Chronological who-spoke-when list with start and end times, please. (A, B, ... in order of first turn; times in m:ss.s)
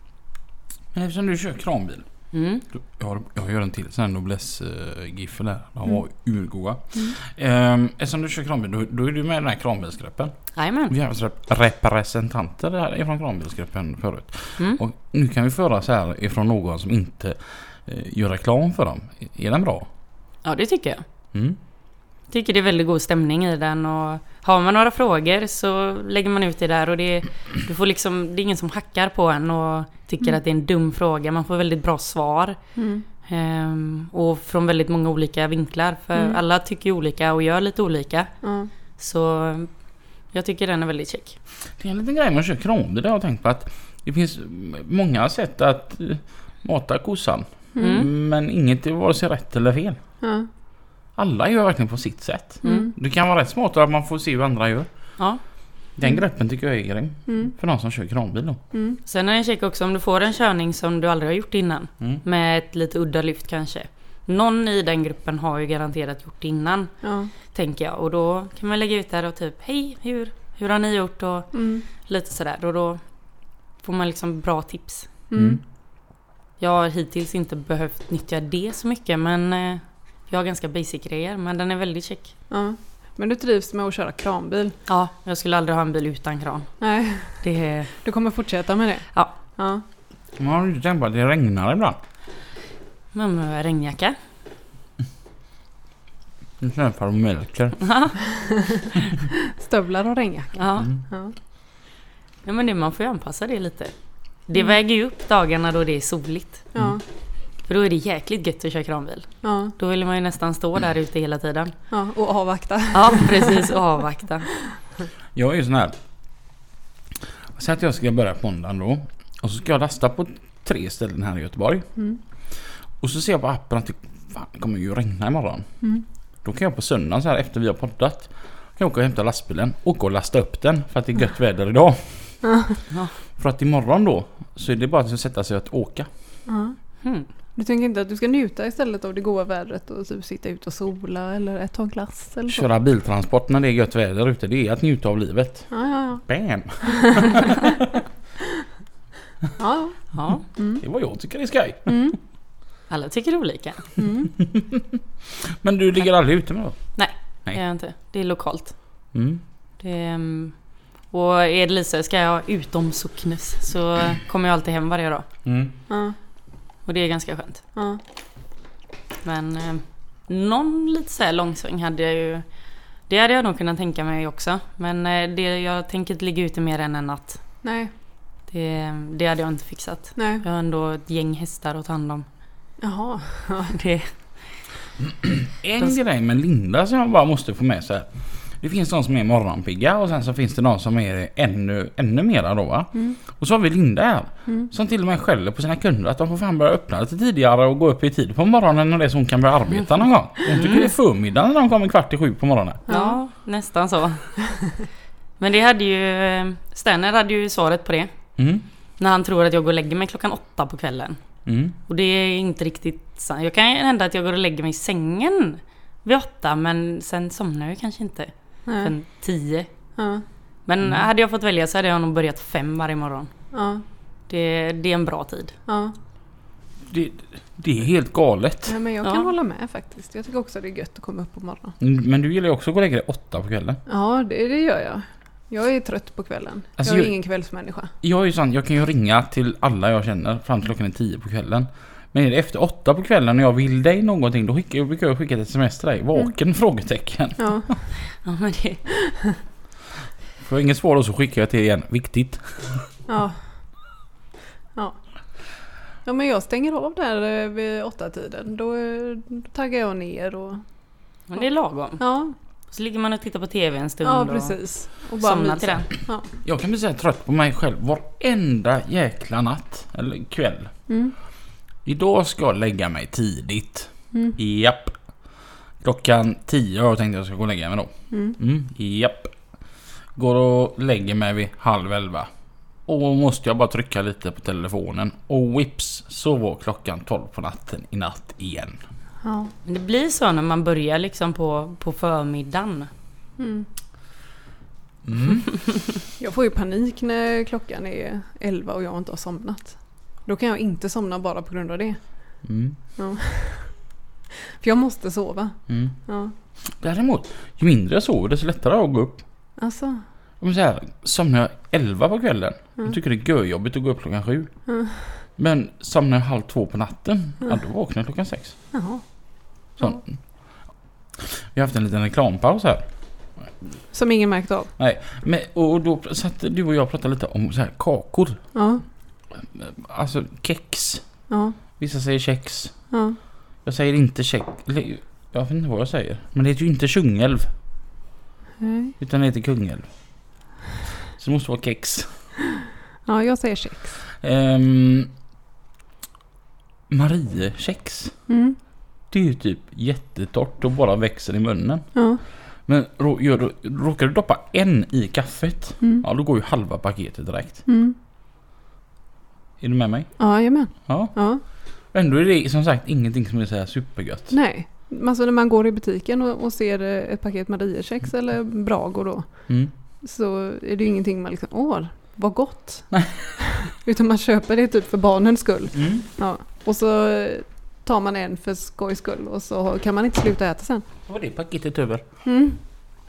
0:00.9-0:02.1 A
0:02.3-0:02.6 B
0:02.8-0:10.4 A
0:10.5-0:10.9 B
0:10.9-0:19.9 A
0:20.4-0:21.0 B
0:22.3-0:32.6 B
0:32.8-0:33.0 C
0:33.2-0:38.3 B
0:38.4-0:38.7 C
0:39.0-0:39.8 B
0:40.3-0:41.4 B
0:41.8-0:50.0 A
0:47.8-0:48.1 C
0:47.8-0:48.1 B
0:50.2-0:50.5 C
0:51.2-0:54.9 A
0:52.6-0:52.9 C
0:56.0-0:58.6 A
0:57.3-0:57.5 C
0:58.7-0:59.0 C
0:59.1-1:06.9 B
1:07.0-1:07.3 C
1:07.5-1:13.0 B
1:11.5-1:11.8 C
1:13.8-1:15.1 B
1:15.3-1:15.6 C
1:15.3-1:15.6 A
1:16.6-1:22.3 B
1:22.5-1:24.8 C
1:24.9-1:26.7 B
1:26.8-1:27.4 C
1:27.4-1:27.9 B
1:28.0-1:29.8 C
1:30.4-1:32.0 A
1:33.1-1:34.2 B
1:36.6-1:37.8 A
1:37.8-1:38.2 B
1:38.4-1:39.0 C
1:39.5-1:41.3 C
1:40.6-1:40.9 B
1:42.4-1:43.9 B
1:44.5-1:46.7 B
1:46.8-1:47.0 C
1:47.7-1:51.7 B
1:49.4-1:49.7 C
1:51.9-1:53.8 C
1:52.9-1:54.5 B
1:55.4-1:56.0 A
1:57.6-2:01.9 A
2:03.0-2:05.7 A
2:06.4-2:12.4 A
2:12.4-2:12.8 C
2:13.4-2:16.1 A
2:16.5-2:16.8 C
2:17.0-2:17.3 B
2:17.6-2:22.6 C
2:22.5-2:25.7 A
2:25.7-2:26.3 C
2:26.3-2:28.0 A
2:26.8-2:27.7 C
2:29.6-2:30.8 C
2:30.1-2:30.4 B
2:30.8-2:32.0 A
2:31.9-2:32.2 C
2:32.9-2:33.8 B
2:34.0-2:34.3 C
2:34.4-2:36.8 A
2:37.0-2:38.8 B
2:39.1-2:39.4 A
2:39.8-2:40.6 B
2:41.1-2:45.3 B
2:45.4-2:45.7 A
2:45.9-2:46.2 C
2:46.9-2:47.6 B
2:47.8-2:48.0 C
2:49.2-2:52.4 B
2:53.1-2:57.4 B
2:57.6-2:57.9 C
2:58.5-3:02.3 B
3:00.2-3:00.4 C
3:02.8-3:03.8 C
3:03.7-3:04.1 B
3:05.1-3:22.8 A
3:20.5-3:20.9 B
3:22.9-3:23.2 C
3:22.9-3:24.3 B
3:25.4-3:28.1 B
3:28.4-3:28.6 A
3:29.0-3:31.2 B
3:31.5-3:31.8 A
3:31.9-3:39.7 B
3:38.7-3:38.9 C
3:40.0-3:40.2 C
3:40.7-3:43.3 B
3:43.5-3:43.8 C
3:44.3-3:45.5 B
3:45.7-3:46.0 C
3:46.9-3:48.8 A
3:48.7-3:51.8 C
3:49.0-3:49.3 B
3:51.8-3:53.8 A
3:53.9-3:57.9 C
3:56.8-3:57.1 A
3:58.0-4:07.8 A
4:07.4-4:07.7 C
4:08.2-4:08.8 B
4:09.1-4:09.3 C
4:10.4-4:12.9 A
4:13.1-4:13.4 C
4:16.0-4:20.6 C
4:21.3-4:22.0 B
4:22.0-4:22.4 C
4:22.7-4:24.6 B
4:24.0-4:26.3 C
4:25.2-4:25.9 B
4:26.4-4:30.7 A
4:30.9-4:31.1 C
4:31.8-4:35.0 A
4:35.8-4:39.3 A
4:38.1-4:38.4 C
4:40.2-4:42.3 A
4:42.9-4:48.8 A
4:49.2-4:49.5 C
4:49.6-4:52.9 B
4:53.4-4:53.7 C
4:55.0-4:55.5 A
4:56.2-5:02.0 C
5:02.4-5:02.8 A
5:03.0-5:03.7 C
5:04.5-5:06.3 C
5:06.8-5:09.2 A
5:09.6-5:10.0 C
5:10.4-5:14.5 A
5:14.7-5:15.2 C
5:15.4-5:18.6 A
5:18.7-5:19.0 C
5:19.8-5:20.2 A
5:21.2-5:22.9 A
5:23.9-5:24.7 C
5:24.8-5:28.4 A
5:28.6-5:28.8 C
5:29.3-5:31.0 A
5:31.3-5:31.6 C
5:31.8-5:32.8 A
5:32.9-5:33.2 C
5:33.6-5:37.5 A
5:38.6-5:38.9 C
5:39.0-5:39.9 A
5:41.2-5:42.1 A
5:43.1-5:44.0 C
5:44.2-5:45.1 A
5:46.9-5:48.2 A
5:48.3-5:48.6 C
5:49.1-5:51.9 A
5:52.0-5:52.2 C
5:52.6-5:57.6 A
5:57.7-5:58.0 C
5:59.6-6:00.1 A
6:00.2-6:01.4 C
6:00.8-6:01.1 A
6:01.9-6:04.3 A
6:04.3-6:09.5 C
6:10.0-6:20.8 C
6:15.7-6:16.1 A
6:21.1-6:22.0 A
6:22.2-6:22.6 C